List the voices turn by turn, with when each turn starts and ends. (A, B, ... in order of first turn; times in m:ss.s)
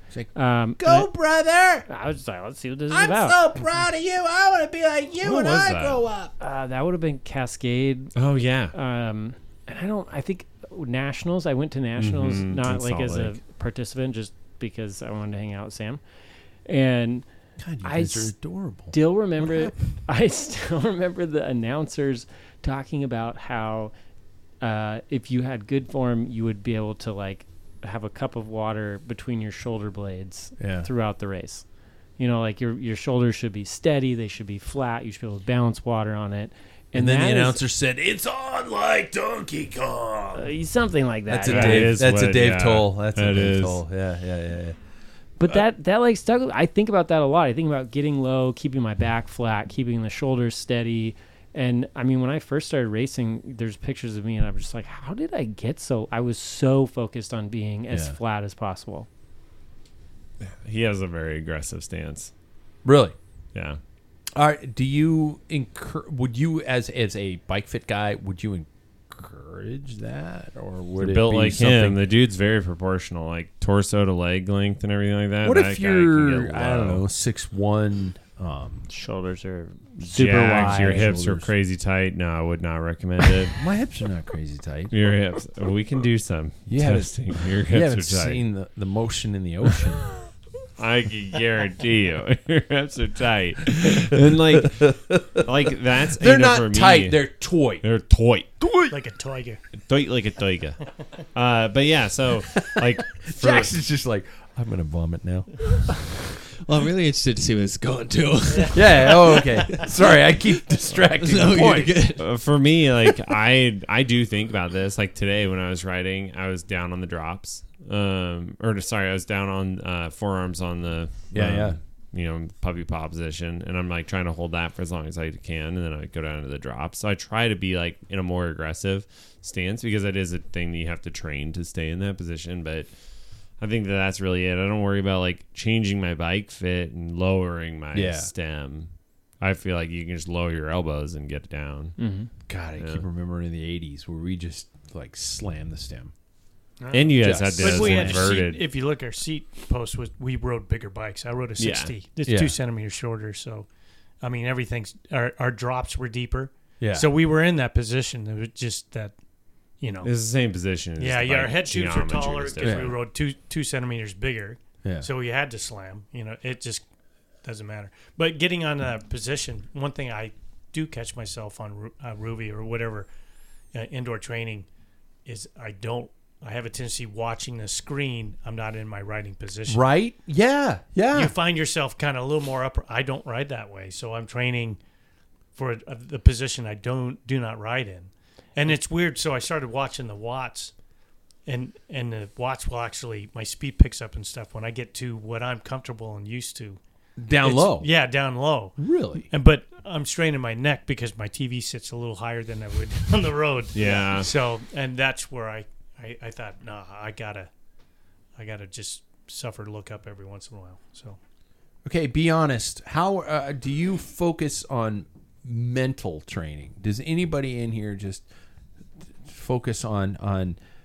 0:00.1-0:01.9 A
0:00.3-0:01.1 B
0:01.9-0:03.6 B
0:02.9-0:06.3 A
0:05.2-0:06.0 C
0:06.4-0:08.1 B
0:08.1-0:08.7 C
0:08.7-0:16.0 B
0:12.0-0:13.4 C
0:16.6-0:17.2 B
0:17.6-0:19.8 A
0:17.8-0:18.4 B
0:18.9-0:23.9 B
0:24.6-0:31.6 B
0:30.6-0:30.9 A
0:32.2-0:37.6 B
0:36.9-0:40.5 A
0:40.3-0:41.9 B
0:41.3-0:44.8 A
0:41.4-0:43.8 C
0:45.4-0:59.1 B
0:57.9-0:58.2 A
1:00.4-1:02.3 C
1:02.8-1:03.2 A
1:03.5-1:03.8 C
1:04.3-1:12.0 A
1:11.0-1:17.0 C
1:15.4-1:18.9 A
1:18.9-1:21.0 B
1:20.0-1:21.5 A
1:20.0-1:23.6 C
1:23.5-1:24.9 A
1:24.9-1:28.4 C
1:26.7-1:30.1 A
1:30.8-1:37.3 C
1:34.1-1:35.5 A
1:36.1-1:37.8 A
1:37.8-1:38.5 C
1:38.6-1:39.0 A
1:38.9-1:39.6 D
1:39.9-1:43.7 C
1:42.5-1:45.5 A
1:46.6-1:49.9 E
1:48.7-1:52.0 A
1:51.2-1:52.2 E
1:52.2-2:12.9 C
2:01.3-2:01.8 A
2:13.6-2:18.9 C
2:17.9-2:18.3 A
2:19.4-2:22.0 C
2:22.0-2:22.3 B
2:22.5-2:26.1 A
2:22.8-2:23.0 C
2:26.8-2:33.7 D
2:26.9-2:28.6 C
2:27.2-2:28.6 A
2:31.6-2:31.9 C
2:32.2-2:32.6 A
2:34.2-2:39.1 D
2:36.8-2:37.1 A
2:39.8-2:40.1 D
2:40.0-2:43.0 C
2:41.0-2:46.8 D
2:42.6-2:43.0 A
2:44.8-2:45.1 A
2:47.4-2:53.1 D
2:53.7-2:54.7 D
2:55.2-2:59.8 D
2:59.7-3:01.3 A
3:01.1-3:04.8 D
3:05.5-3:10.7 D
3:11.4-3:16.8 D
3:17.2-3:17.9 A
3:17.4-3:18.8 D
3:18.8-3:19.3 A
3:19.3-3:27.5 D
3:23.7-3:24.3 C
3:28.4-3:31.2 D
3:31.8-3:38.2 A
3:39.2-3:40.6 A